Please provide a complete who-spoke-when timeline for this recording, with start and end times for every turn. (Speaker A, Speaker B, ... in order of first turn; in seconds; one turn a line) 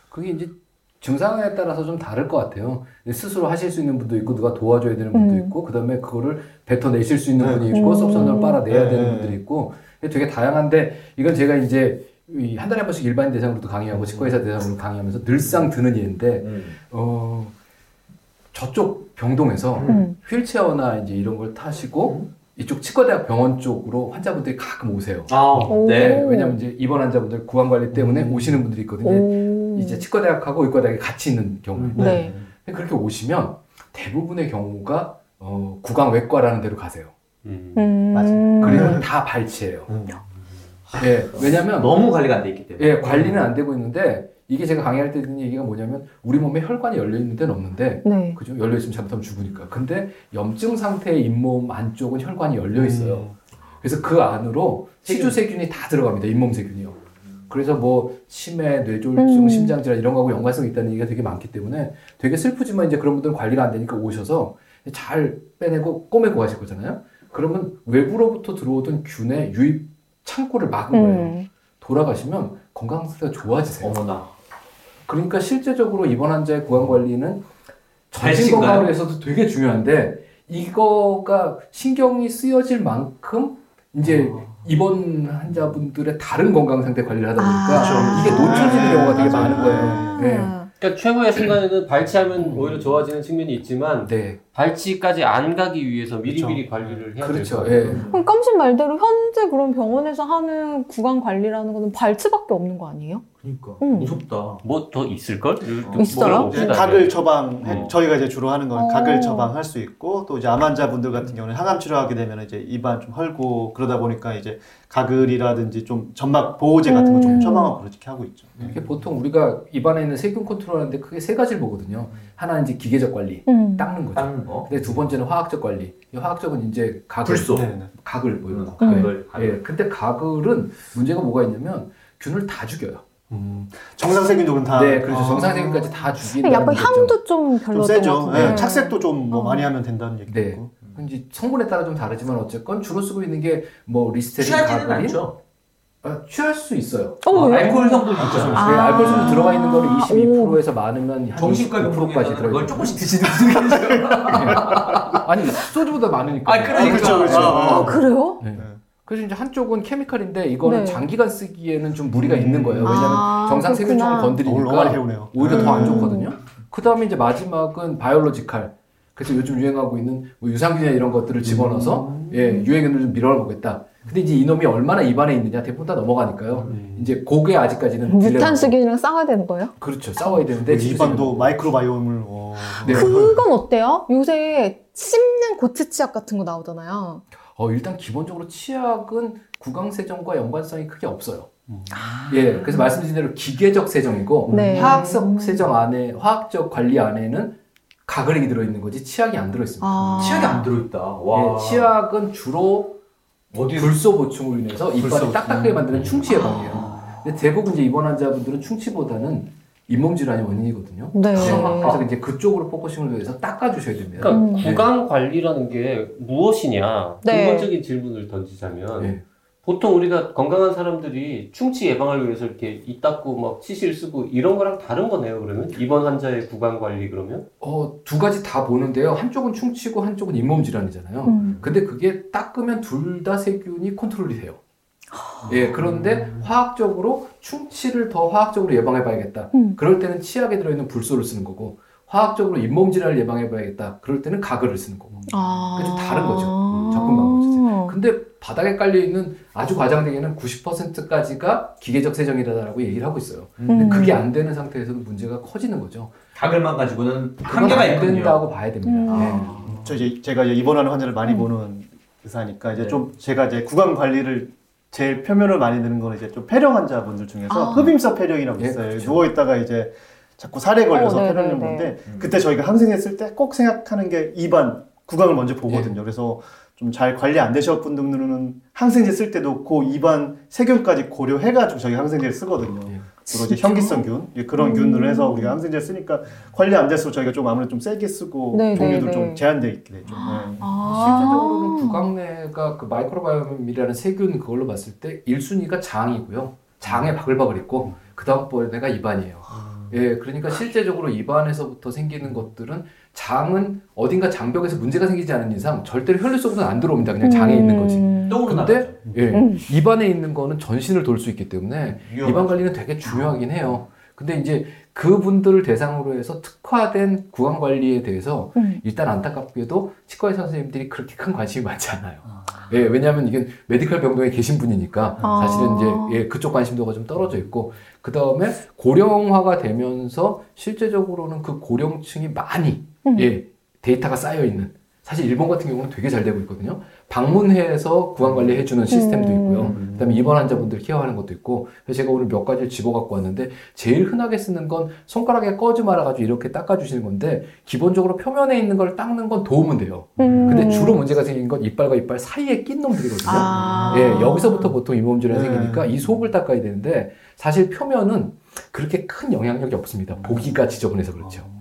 Speaker A: 0.1-17.5
Speaker B: 5.1-5.5
Speaker C: 7.4-7.7
Speaker B: 7.7-8.6
Speaker C: 8.7-9.4
Speaker D: 13.9-14.3
Speaker D: 16.4-16.8
Speaker A: 18.5-37.1
Speaker B: 19.9-20.2
Speaker D: 25.3-26.2
Speaker B: 25.7-26.6
Speaker D: 27.9-28.6
Speaker B: 29.0-30.0
Speaker D: 31.7-32.4
Speaker B: 31.9-32.3
Speaker C: 32.0-32.4
Speaker E: 37.4-37.9
Speaker B: 37.7-39.0
Speaker C: 38.1-39.0
Speaker A: 38.6-39.9
Speaker C: 39.9-40.2
Speaker A: 40.9-42.1
Speaker D: 41.5-43.3
Speaker A: 42.8-57.0
Speaker C: 43.1-43.4
Speaker B: 48.0-48.4
Speaker C: 52.7-53.4
Speaker A: 57.5-74.0
Speaker B: 59.1-59.8
Speaker B: 70.9-71.5
Speaker D: 73.8-74.3
Speaker A: 75.1-77.5
Speaker A: 78.1-90.5
Speaker D: 78.2-79.0
Speaker D: 84.0-84.4
Speaker B: 87.4-90.7
Speaker C: 87.7-90.1
Speaker D: 87.8-88.4
Speaker E: 90.8-98.0
Speaker A: 92.4-92.8
Speaker A: 94.0-94.4
Speaker C: 96.2-97.0
Speaker A: 97.2-98.0
Speaker D: 97.8-98.1
Speaker C: 97.9-98.2
Speaker B: 98.1-103.2
Speaker D: 103.4-104.6
Speaker B: 103.8-104.2
Speaker E: 104.6-107.9
Speaker C: 105.8-118.8
Speaker B: 105.9-106.6
Speaker D: 107.6-107.9
Speaker B: 108.7-109.5
Speaker B: 116.8-117.8
Speaker A: 118.7-133.0
Speaker B: 123.5-123.9
Speaker D: 124.1-125.0
Speaker D: 127.2-127.7
Speaker C: 127.5-127.9
Speaker D: 128.5-129.6
Speaker B: 128.8-129.2
Speaker C: 133.3-136.0
Speaker A: 134.7-137.2
Speaker D: 135.1-135.6
Speaker B: 136.3-139.7
Speaker C: 137.7-140.7
Speaker A: 138.3-138.6
Speaker A: 140.3-145.3
Speaker D: 144.4-145.4
Speaker A: 146.0-153.1
Speaker B: 147.2-150.6
Speaker D: 147.3-149.2
Speaker C: 148.2-149.4
Speaker D: 151.3-155.2
Speaker A: 154.3-178.8
Speaker D: 156.4-158.0
Speaker C: 156.7-158.8
Speaker B: 157.3-158.4
Speaker B: 160.6-161.0
Speaker C: 162.1-163.2
Speaker B: 162.8-164.4
Speaker C: 164.4-166.2
Speaker B: 165.4-166.3
Speaker C: 171.4-172.4
Speaker C: 176.6-177.1
Speaker B: 178.0-179.7
Speaker A: 179.8-181.7
Speaker C: 180.5-183.4
Speaker A: 182.8-183.2
Speaker B: 182.8-187.2
Speaker A: 187.5-191.5
Speaker C: 191.7-192.2
Speaker B: 191.9-192.9
Speaker A: 192.3-200.7
Speaker C: 194.5-195.0
Speaker B: 194.5-195.7
Speaker B: 199.8-200.7
Speaker D: 200.2-201.9
Speaker A: 201.3-203.0
Speaker D: 203.5-204.0
Speaker A: 203.7-214.9
Speaker D: 205.0-206.0
Speaker B: 206.3-206.7
Speaker D: 206.8-207.0
Speaker B: 211.1-212.0
Speaker D: 211.3-212.0
Speaker E: 214.2-227.4
Speaker B: 214.3-214.7
Speaker B: 217.2-217.7
Speaker A: 219.0-219.2
Speaker A: 227.6-234.6
Speaker B: 231.2-231.6
Speaker B: 235.1-235.5
Speaker A: 235.5-256.2
Speaker B: 239.5-239.8
Speaker B: 245.3-247.9
Speaker D: 246.7-247.0
Speaker D: 253.6-254.1
Speaker B: 253.7-254.2
Speaker D: 256.4-258.4
Speaker A: 257.4-259.7
Speaker B: 258.8-259.6
Speaker D: 259.1-259.9
Speaker C: 259.6-290.7
Speaker D: 262.7-263.0
Speaker B: 267.5-267.9
Speaker A: 268.6-269.3
Speaker B: 270.9-272.0
Speaker D: 272.1-272.3
Speaker A: 275.7-275.9
Speaker B: 283.2-285.6
Speaker B: 288.5-289.4
Speaker B: 290.1-292.1
Speaker A: 290.8-361.4
Speaker C: 299.5-299.9
Speaker B: 307.2-308.4
Speaker D: 308.3-309.1
Speaker B: 309.3-309.6
Speaker D: 312.0-313.3
Speaker B: 318.6-318.8
Speaker B: 325.2-326.2
Speaker B: 333.0-333.3
Speaker B: 338.9-339.7
Speaker D: 339.6-340.0
Speaker C: 350.2-350.9
Speaker B: 350.2-351.0
Speaker B: 353.2-354.7
Speaker C: 353.3-354.3
Speaker C: 355.3-356.1